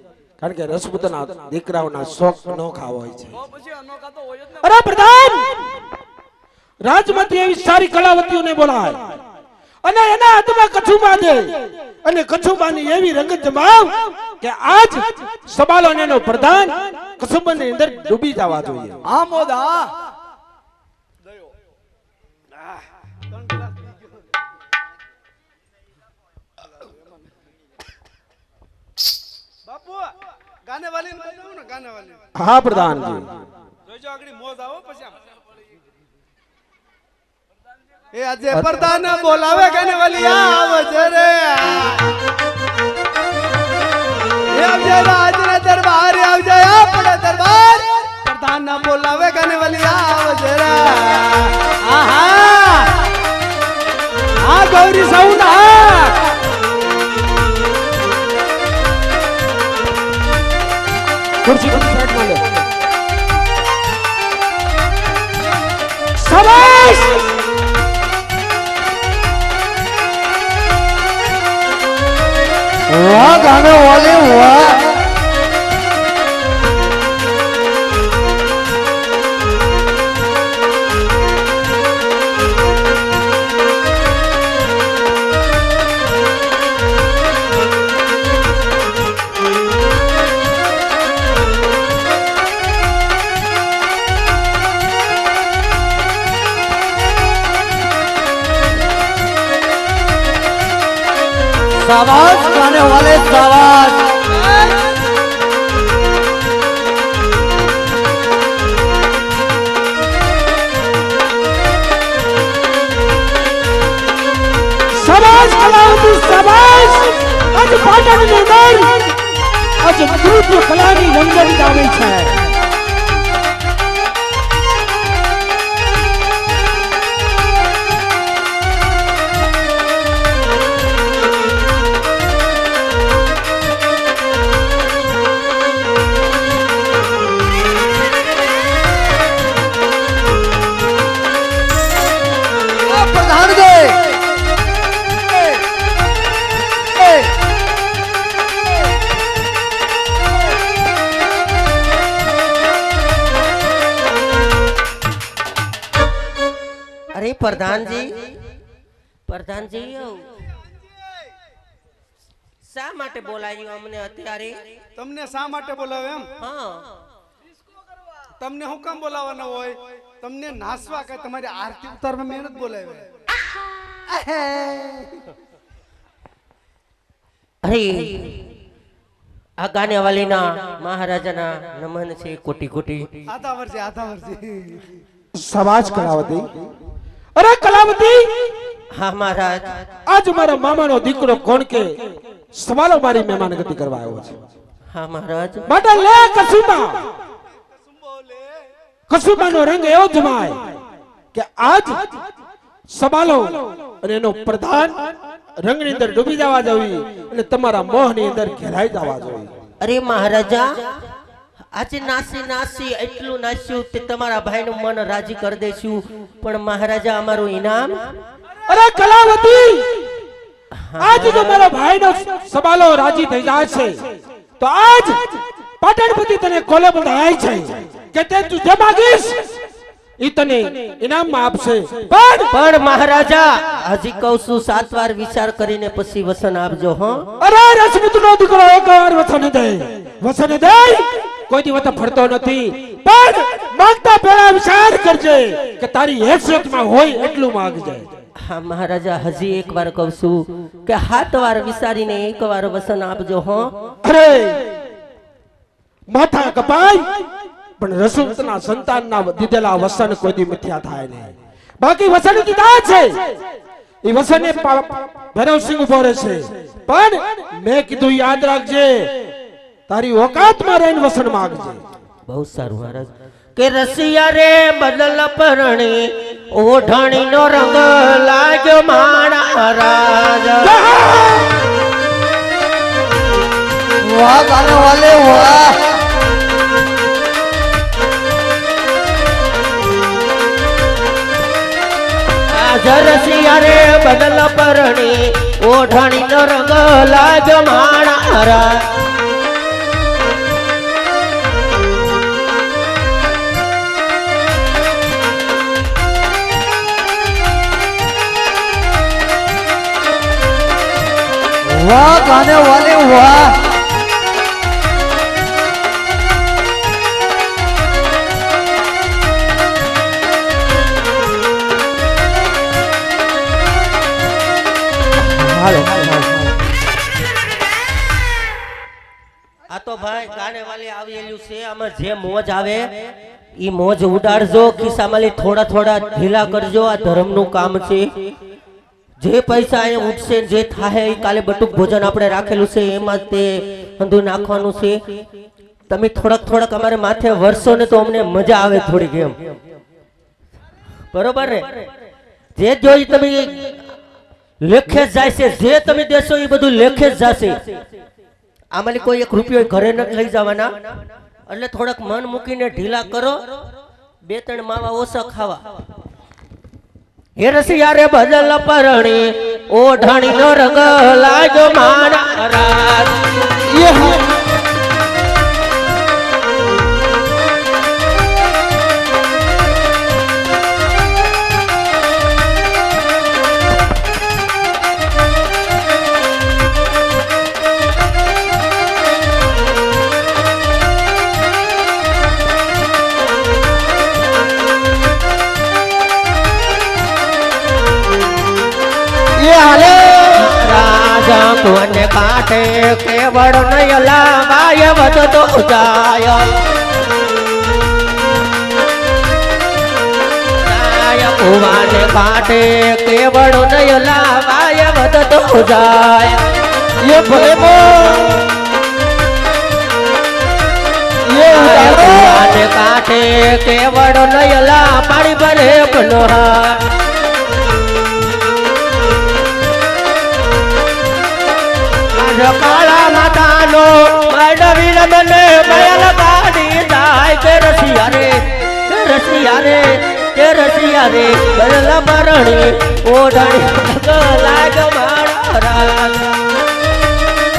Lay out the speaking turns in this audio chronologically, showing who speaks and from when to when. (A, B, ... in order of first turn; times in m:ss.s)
0:00.4-0:03.4 A
0:03.3-0:05.0 B
0:04.6-0:05.6 A
0:06.8-0:09.0 A
0:09.8-0:19.0 A
0:19.0-0:19.9 B
0:22.6-0:24.3 C
0:29.6-0:30.2 C
0:30.7-0:32.2 C
0:32.4-0:33.3 A
0:33.9-0:35.2 C
0:38.1-0:42.1 C
0:38.5-0:38.9 A
0:44.5-0:53.1 C
0:54.4-0:56.2 C
0:55.4-0:55.7 A
1:01.4-1:02.6 A
1:06.2-1:07.3 A
1:12.9-1:14.8 D
1:41.8-1:44.2 D
1:44.3-1:45.0 C
1:54.9-1:59.1 A
1:59.8-2:02.4 A
2:22.9-2:24.2 D
2:27.0-2:27.3 D
2:37.1-2:38.2 E
2:39.3-2:40.3 E
2:42.7-2:44.6 E
2:45.0-2:46.3 C
2:46.4-2:46.9 E
2:48.4-2:53.1 C
2:54.1-2:55.2 C
2:57.6-2:58.4 E
2:59.6-3:03.2 E
3:03.3-3:04.9 C
3:05.4-3:06.5 A
3:07.4-3:08.3 A
3:08.9-3:09.8 E
3:10.1-3:12.0 A
3:12.5-3:14.4 A
3:14.9-3:15.7 E
3:15.7-3:17.0 A
3:17.5-3:18.7 C
3:19.1-3:20.6 A
3:21.3-3:22.0 A
3:22.9-3:25.0 A
3:25.6-3:29.5 A
3:29.8-3:30.7 E
3:31.7-3:38.1 E
3:38.7-3:39.9 A
3:40.9-3:41.6 E
3:41.0-3:45.2 A
3:45.8-3:49.5 A
3:50.2-3:52.5 A
3:52.5-3:57.3 E
3:57.4-4:08.1 A
4:08.4-4:13.7 E
4:14.0-4:14.6 A
4:16.1-4:17.1 A
4:17.8-4:23.2 A
4:24.0-4:29.1 A
4:29.9-4:31.8 A
4:32.3-4:40.7 E
4:40.6-4:41.5 A
4:44.0-4:45.9 D
4:52.5-4:58.8 E
5:11.7-5:13.6 D
5:25.4-5:26.5 A
5:29.7-5:32.9 E
5:33.6-5:38.1 E
5:39.2-5:43.5 E
5:44.0-5:45.0 E
5:45.9-5:49.4 E
5:51.1-5:51.9 E
5:52.6-5:53.8 E
5:54.6-5:57.6 E
5:58.8-6:00.7 E
6:01.5-6:03.5 E
6:04.3-6:05.6 E
6:07.4-6:13.2 E
6:13.8-6:14.2 D
6:39.4-6:40.3 D
6:40.3-6:46.6 E
6:50.6-6:56.4 E
6:57.1-6:57.7 D
6:57.3-6:58.3 E
7:01.3-7:02.6 D
7:01.5-7:06.8 E
7:12.2-7:26.4 E